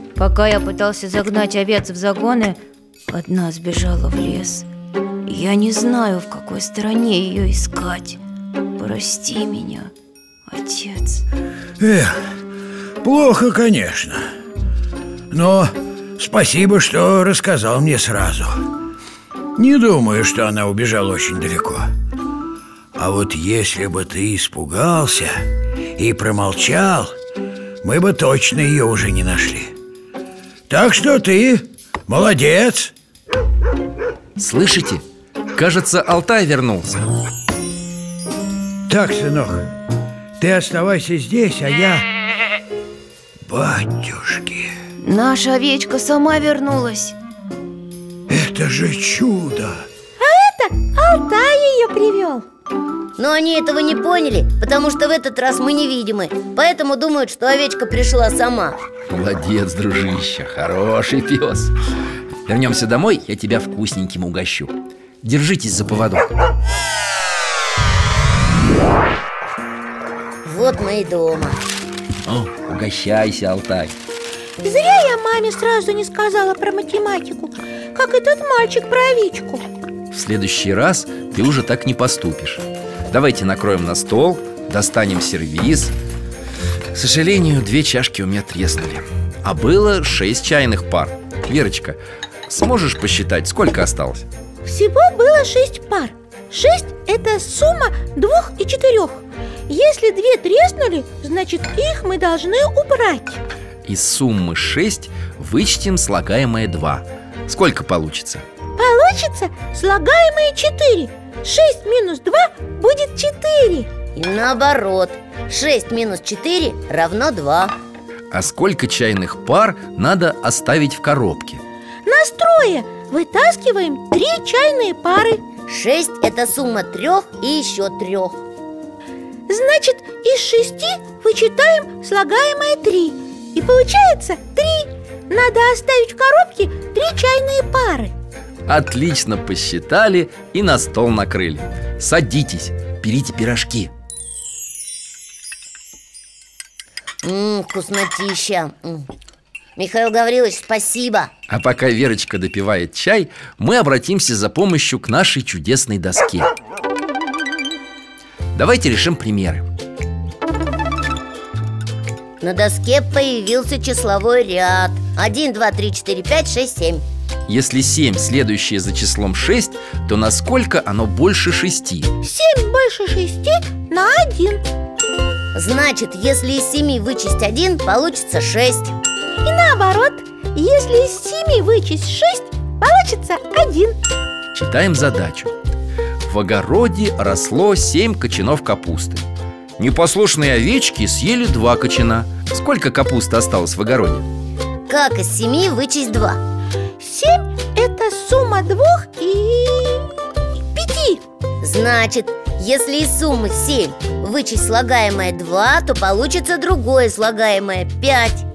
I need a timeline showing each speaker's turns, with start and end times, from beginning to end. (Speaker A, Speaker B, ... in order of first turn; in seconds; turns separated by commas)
Speaker A: 0.1-4.7, Speaker A: 5.2-8.2, Speaker A: 8.8-9.9, Speaker A: 10.5-11.2, Speaker B: 11.8-12.2, Speaker B: 13.0-14.2, Speaker B: 15.3-18.6, Speaker B: 19.6-21.9, Speaker B: 22.9-25.3, Speaker B: 26.0-27.1, Speaker B: 27.8-29.7, Speaker B: 30.7-32.9, Speaker C: 34.4-35.0, Speaker C: 35.5-37.0, Speaker B: 38.9-39.6, Speaker B: 40.4-42.1, Speaker B: 43.5-44.7, Speaker A: 45.0-47.1, Speaker B: 48.3-49.9, Speaker D: 50.2-52.4, Speaker E: 53.2-58.8, Speaker C: 59.1-61.7, Speaker C: 62.5-66.3, Speaker E: 70.4-71.6, Speaker C: 72.2-73.9, Speaker D: 74.6-79.6, Speaker C: 80.1-85.9, Speaker C: 86.9-94.3, Speaker D: 94.6-103.4, Speaker C: 103.8-108.4, Speaker D: 108.8-113.9, Speaker E: 114.2-117.7, Speaker C: 118.3-121.6, Speaker D: 122.0-125.4, Speaker E: 125.7-128.4, Speaker D: 129.5-138.1, Speaker C: 138.7-143.9, Speaker E: 147.2-149.1, Speaker E: 149.8-151.3, Speaker C: 151.5-156.5, Speaker C: 158.5-159.7, Speaker E: 162.4-167.0, Speaker C: 167.5-172.1, Speaker D: 172.2-174.6, Speaker E: 175.5-178.9, Speaker D: 179.4-183.9, Speaker C: 184.5-185.5, Speaker C: 186.2-189.2, Speaker C: 189.8-194.3, Speaker E: 194.9-196.4, Speaker D: 197.0-201.2, Speaker E: 201.6-208.4